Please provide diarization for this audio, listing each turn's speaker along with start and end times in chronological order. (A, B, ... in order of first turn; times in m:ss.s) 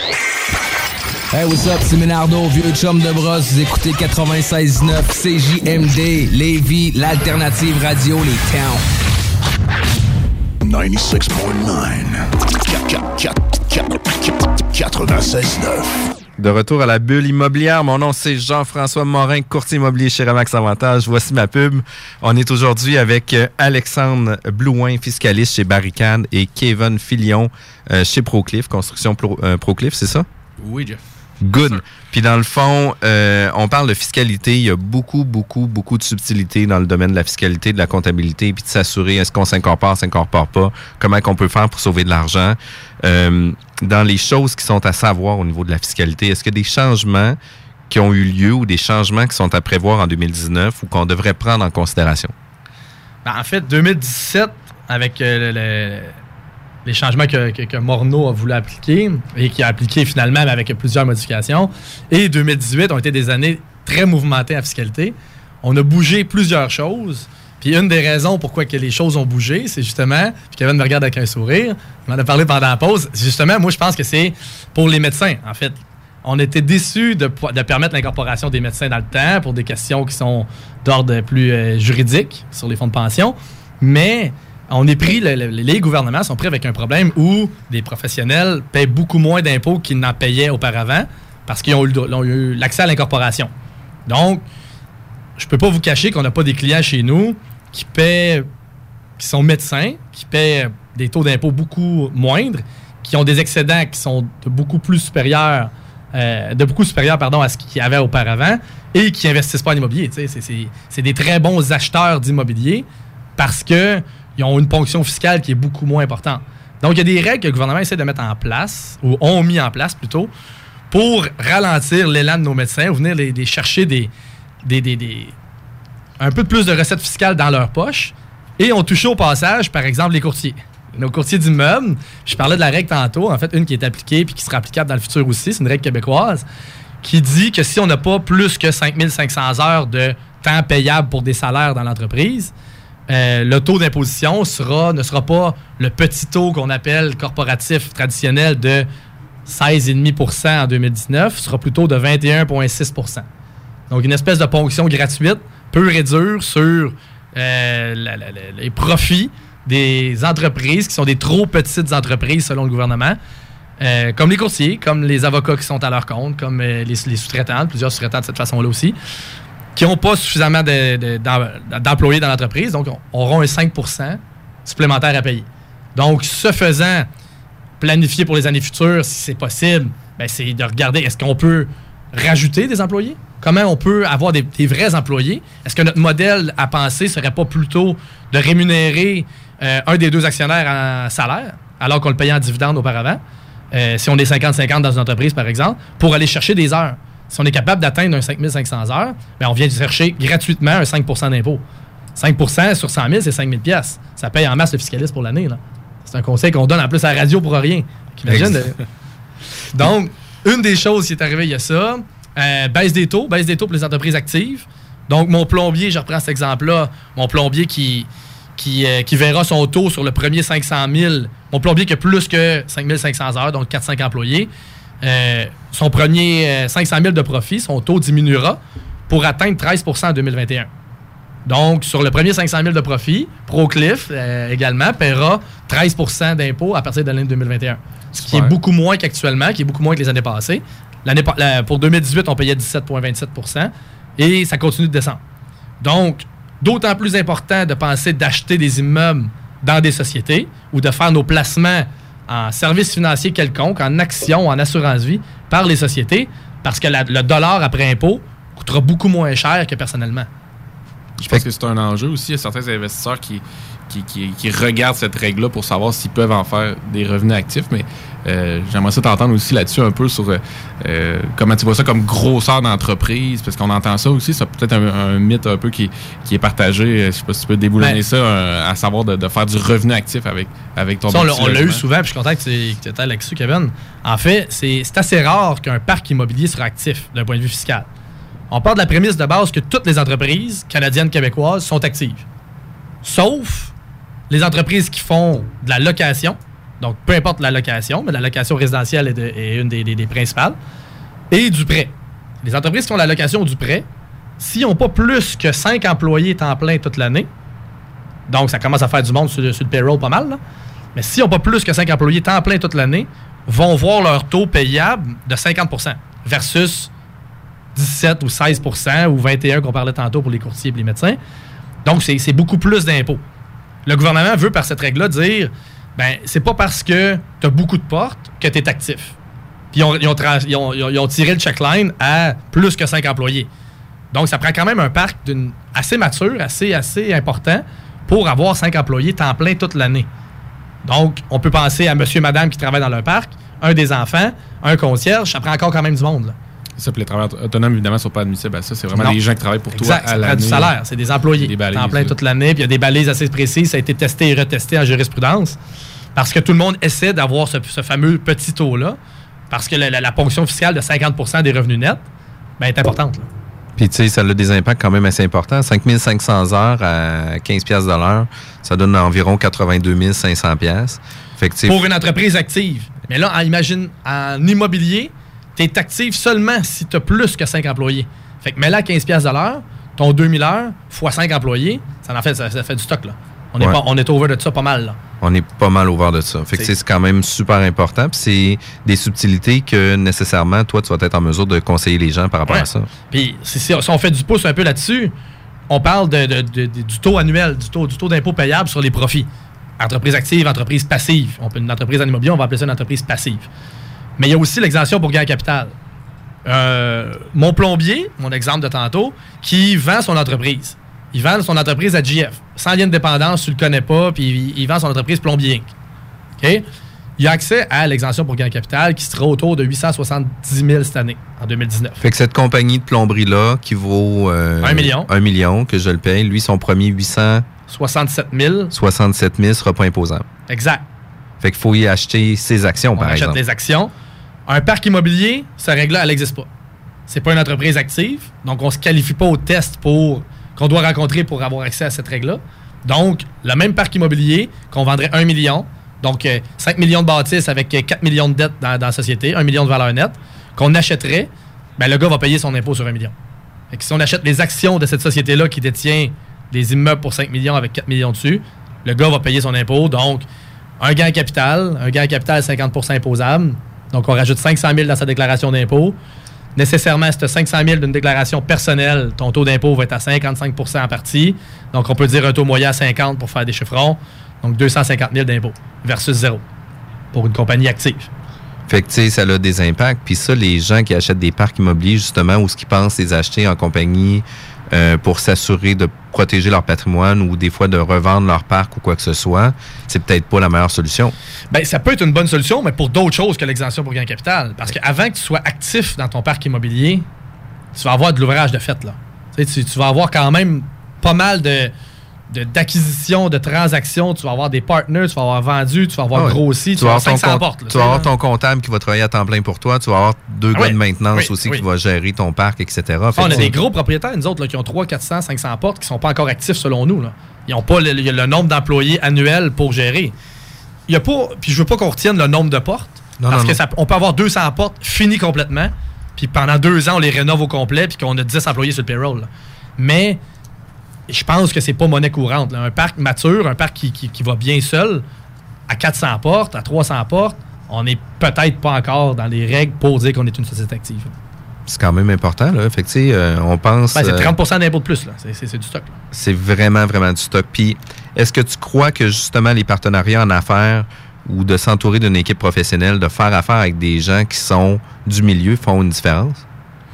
0:01.3-0:08.8 A
0:10.6-0:15.9 B
0:16.4-0:30.3 C
0:30.6-0:31.1 D
0:31.4-0:47.4 C
0:47.9-0:52.3 C
0:53.2-0:56.1 E
0:56.8-1:33.5 E
1:34.1-1:34.4 E
1:35.4-1:38.5 E
1:39.2-1:52.9 E
1:53.4-2:00.3 E
2:00.9-2:04.1 E
2:04.6-2:05.3 E
2:06.2-2:16.4 E
2:17.0-2:22.5 E
2:23.1-2:28.9 E
2:29.4-2:33.2 E
2:33.9-2:43.2 E
2:43.8-2:49.0 E
2:49.7-2:57.1 E
2:57.8-3:13.2 E
3:13.7-3:21.6 E
3:22.2-3:28.8 E
3:28.2-3:28.7 C
3:29.7-3:44.5 E
3:45.0-3:50.7 E
3:51.4-4:05.2 E
3:58.2-3:58.5 D
4:05.8-4:20.3 E
4:21.2-4:41.8 D
4:41.1-4:47.9 E
4:48.5-4:52.2 E
4:53.0-4:53.7 E
4:54.3-5:00.6 E
5:01.3-5:03.8 E
5:04.4-5:07.3 E
5:08.3-5:10.4 E
5:10.9-5:16.9 E
5:17.8-5:21.2 E
5:21.8-5:23.2 E
5:23.8-5:29.2 E
5:29.7-5:33.5 E
5:34.1-5:40.1 E
5:40.8-5:46.4 E
5:46.8-5:50.8 D
5:49.7-5:55.6 E
5:51.4-5:52.2 D
5:56.1-5:59.0 E
5:59.5-6:02.0 E
6:02.6-6:03.3 E
6:03.8-6:11.8 C
6:11.7-6:25.0 E
6:25.2-6:32.9 C
6:32.5-6:35.1 E
6:35.7-6:43.5 E
6:44.2-6:45.7 E
6:46.4-6:55.7 E
6:56.4-6:56.6 E
6:57.2-7:02.0 E
7:02.0-7:07.5 C
7:04.6-7:05.1 E
7:07.7-7:08.7 E
7:08.7-7:10.2 C
7:10.5-7:10.8 E
7:11.4-7:13.4 C
7:13.0-7:13.9 E
7:14.5-7:16.5 E
7:17.1-7:33.1 E
7:33.7-7:40.2 E
7:40.8-7:46.0 E
7:46.6-7:56.4 E
7:57.1-7:58.1 E
7:58.7-8:11.1 C
8:11.5-8:17.1 E
8:17.8-8:21.7 E
8:22.3-8:28.1 E
8:26.1-8:33.6 C
8:30.5-8:31.6 E
8:33.1-8:40.1 E
8:40.9-8:50.2 E
8:43.2-8:43.6 C
8:51.1-8:55.0 E
8:55.7-9:01.1 E
9:01.7-9:04.3 C
9:03.9-9:06.0 E
9:06.1-9:16.4 C